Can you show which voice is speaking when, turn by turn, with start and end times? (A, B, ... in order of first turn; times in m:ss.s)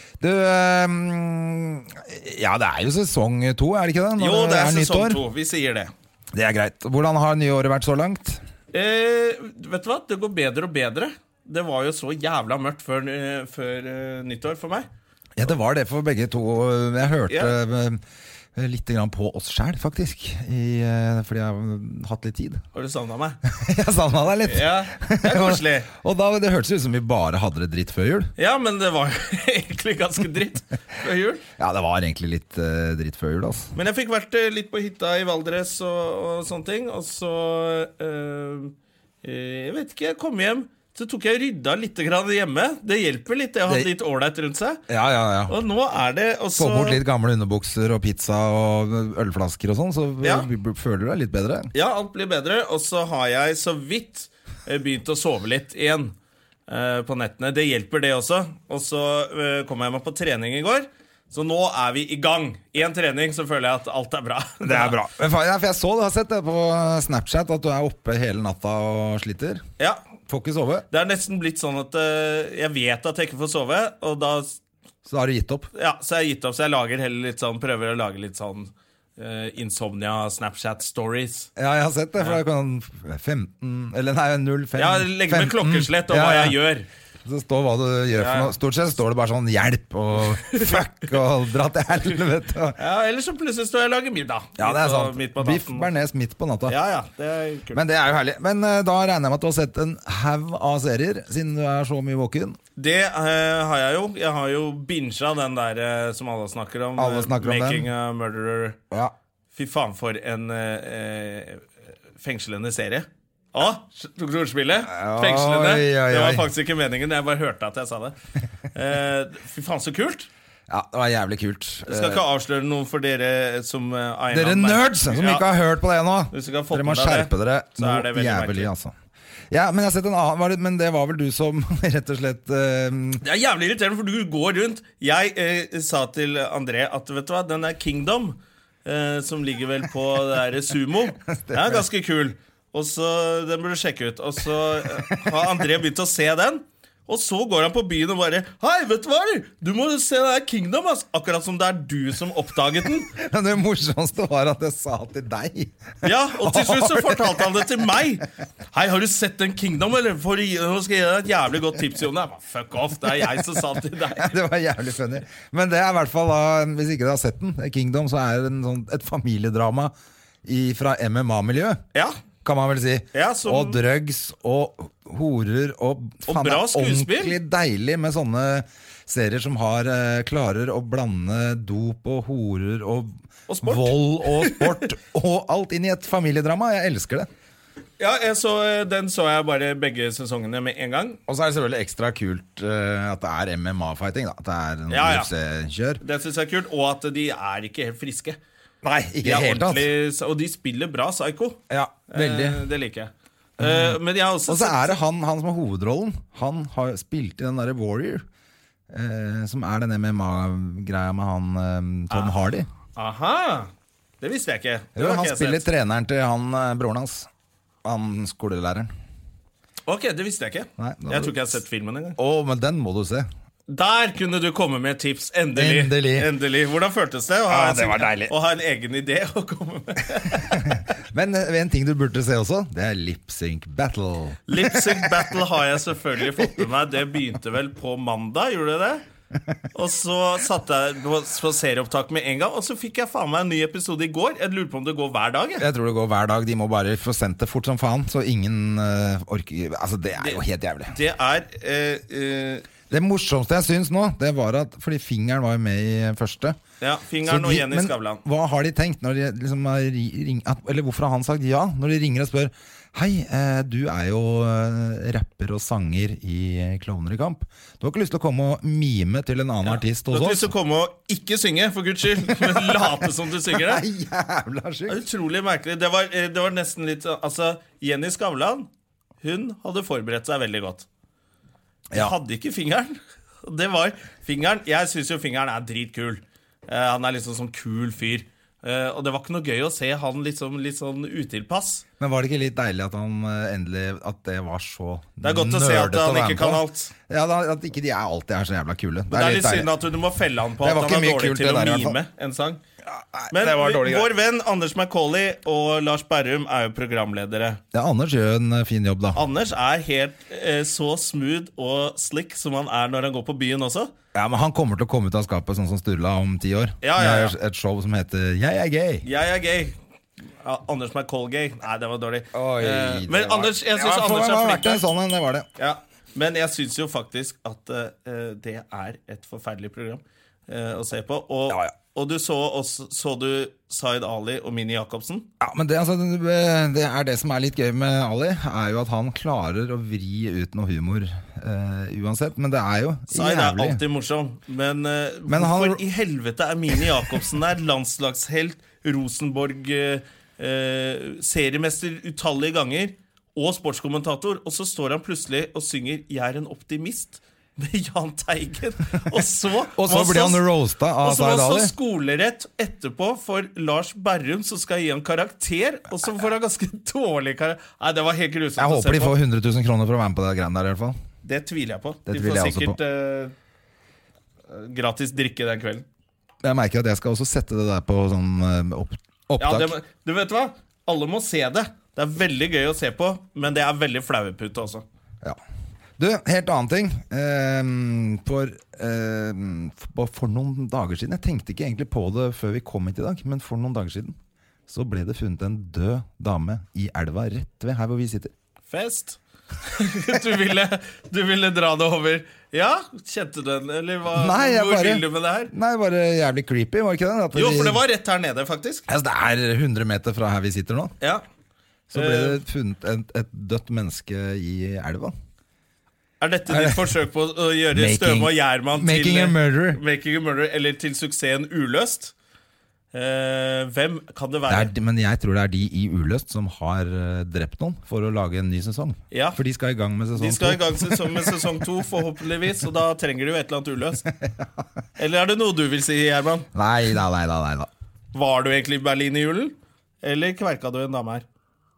0:00.2-0:05.2 A
0:04.2-0:05.9 B
0:06.3-0:08.4 A
0:08.7-0:14.9 B
0:15.4-0:18.0 A
0:17.3-0:17.6 B
0:18.6-0:22.6 A
0:22.7-0:23.4 B
0:23.4-0:28.3 A
0:24.5-0:25.9 B
0:28.4-0:31.4 B
0:31.6-0:33.7 A
0:33.7-0:44.9 B
0:44.9-0:45.6 A
0:45.5-0:47.0 B
0:46.6-0:51.7 A
0:50.2-0:50.5 B
0:51.7-0:56.2 B
0:56.7-1:05.0 B
1:04.6-1:09.6 A
1:10.3-1:10.9 A
1:10.9-1:14.6 B
1:15.1-1:15.7 A
1:15.7-1:21.5 B
1:21.6-1:26.6 A
1:24.8-1:26.9 B
1:27.2-1:32.8 A
1:28.2-1:28.5 B
1:32.8-1:35.9 B
1:34.6-1:36.8 A
1:36.7-1:37.8 B
1:37.7-1:42.6 A
1:42.8-1:48.8 B
1:47.0-1:47.9 A
1:49.5-1:58.1 B
1:54.8-1:56.5 A
1:58.7-2:00.3 B
2:00.7-2:02.2 A
2:01.9-2:05.5 B
2:04.3-2:08.9 A
2:06.3-2:08.7 B
2:09.5-2:13.2 A
2:13.2-2:33.1 B
2:21.4-2:21.8 A
2:25.1-2:25.5 A
2:33.1-2:37.7 A
2:36.0-2:44.4 B
2:44.2-2:49.9 A
2:50.4-2:51.8 A
2:52.4-3:07.3 A
2:53.1-2:53.8 B
2:56.3-2:57.4 B
3:03.5-3:04.9 B
3:08.0-3:11.2 B
3:11.3-3:16.0 A
3:14.9-3:15.3 B
3:16.0-3:18.4 B
3:18.8-3:19.9 A
3:19.2-3:25.0 B
3:21.7-3:22.6 A
3:23.6-3:28.2 A
3:28.9-3:32.7 A
3:33.0-3:33.7 B
3:34.2-3:35.6 B
3:35.0-3:37.3 A
3:37.8-3:38.9 A
3:39.9-3:42.2 B
3:40.8-3:41.4 A
3:42.2-3:43.3 A
3:43.7-3:50.8 B
3:45.6-3:46.3 A
3:47.5-3:48.3 A
3:50.4-3:55.3 A
3:54.5-3:59.0 B
3:56.3-3:56.7 A
3:59.7-4:05.7 B
4:05.6-4:11.0 A
4:10.2-4:12.7 B
4:12.9-4:16.6 A
4:16.8-4:18.2 B
4:17.2-4:30.5 A
4:29.6-4:33.8 B
4:32.2-4:35.0 A
4:34.9-4:38.7 B
4:39.2-4:40.9 B
4:41.9-4:51.8 B
4:52.0-4:59.7 A
4:55.2-4:56.9 B
4:59.1-5:02.6 B
5:00.6-5:02.0 A
5:02.8-5:04.1 A
5:03.3-5:07.6 B
5:07.7-5:09.2 A
5:09.2-5:13.9 B
5:14.1-5:19.1 A
5:16.8-5:17.4 B
5:19.0-5:19.8 B
5:20.4-5:24.8 B
5:22.3-5:25.5 A
5:25.6-5:35.3 B
5:35.4-5:43.8 A
5:43.1-6:00.5 B
5:45.3-5:45.8 A
5:59.8-6:01.7 A
6:01.0-6:09.2 B
6:08.6-6:11.0 A
6:11.2-6:13.3 B
6:12.1-6:12.8 A
6:14.5-6:15.8 B
6:16.4-6:19.7 A
6:19.4-6:24.8 B
6:26.0-6:34.2 A
6:34.7-6:38.3 A
6:38.7-6:45.5 B
6:44.1-6:47.8 A
6:47.3-6:48.9 B
6:48.9-6:50.9 A
6:51.9-6:55.1 A
6:51.9-6:52.4 B
6:56.2-7:02.1 B
6:56.5-6:56.9 A
6:57.7-6:59.8 A
7:02.9-7:04.7 B
7:04.5-7:11.4 A
7:09.1-7:09.4 B
7:10.2-7:14.0 B
7:14.2-7:14.5 A
7:15.0-7:16.5 B
7:16.5-7:17.7 A
7:18.1-7:21.2 B